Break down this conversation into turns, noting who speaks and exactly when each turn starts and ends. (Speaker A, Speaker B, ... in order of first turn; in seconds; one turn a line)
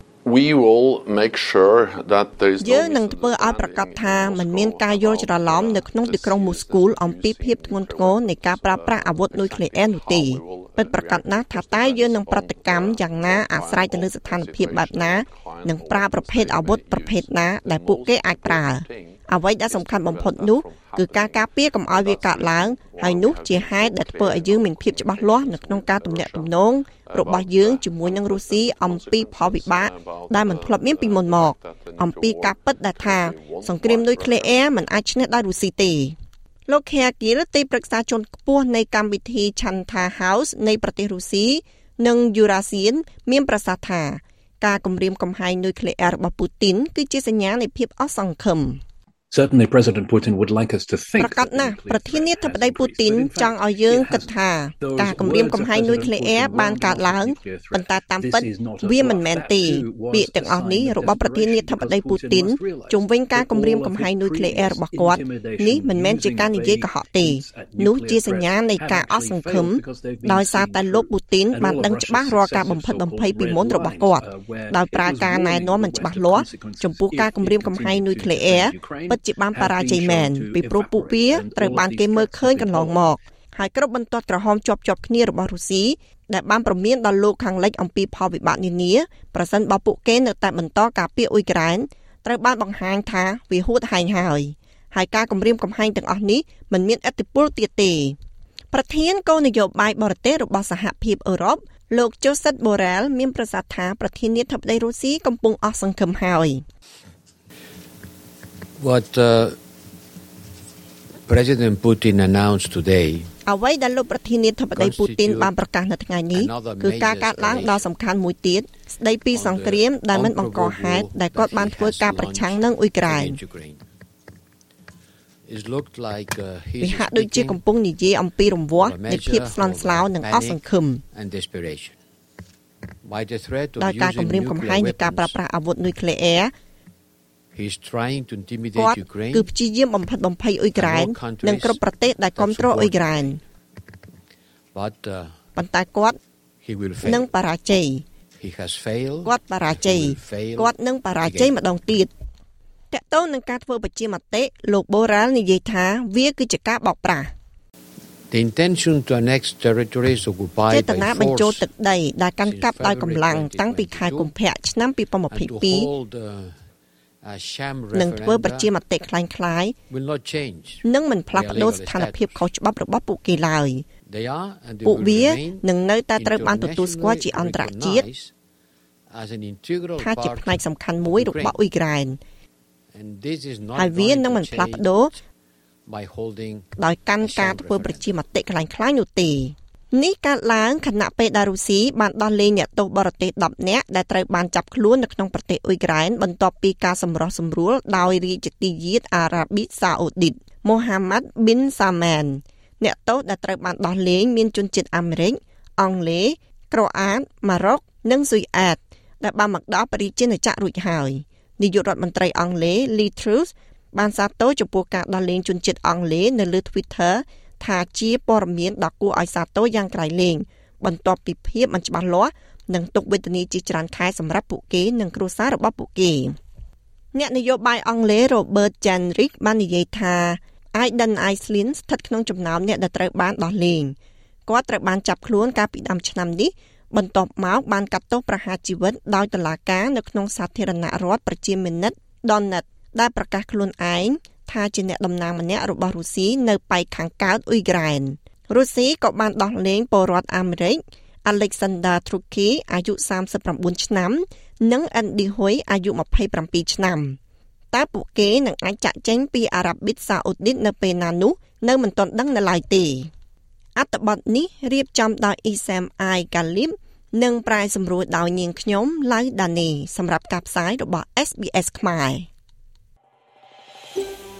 Speaker A: 0.2-34.8
Speaker B: 2.6-36.1
Speaker B: 36.7-48.8
Speaker C: 49.3-54.3
Speaker B: 51.2-98.2
Speaker C: 54.8-83.2
Speaker B: 98.7-106.6
Speaker D: 108.8-109.6
Speaker D: 111.3-113.3
Speaker B: 113.5-123.4
Speaker D: 114.7-115.5
Speaker D: 116.3-117.9
Speaker D: 119.3-123.8
Speaker D: 125.5-127.6
Speaker B: 126.8-131.0
Speaker D: 128.8-132.0
Speaker D: 133.0-135.4
Speaker B: 133.8-136.5
Speaker D: 137.5-139.5
Speaker B: 138.8-143.4
Speaker D: 140.8-143.4
Speaker D: 144.7-145.4
Speaker B: 145.6-146.2
Speaker D: 146.6-147.3
Speaker B: 147.0-148.0
Speaker D: 148.4-151.6
Speaker B: 149.2-152.1
Speaker B: 152.9-157.3
Speaker D: 158.3-161.7
Speaker B: 160.7-165.9
Speaker D: 162.4-164.3
Speaker D: 165.3-166.6
Speaker D: 167.2-168.7
Speaker B: 167.9-169.8
Speaker D: 169.9-172.4
Speaker B: 170.8-173.9
Speaker D: 174.1-178.3
Speaker B: 174.8-178.1
Speaker D: 179.1-181.6
Speaker B: 180.0-182.2
Speaker D: 182.9-185.0
Speaker B: 183.8-185.1
Speaker D: 185.9-186.7
Speaker B: 186.8-226.3
Speaker D: 187.2-188.1
Speaker B: 227.1-233.9
Speaker B: 234.5-257.2
Speaker B: 257.7-263.1
Speaker B: 263.8-272.3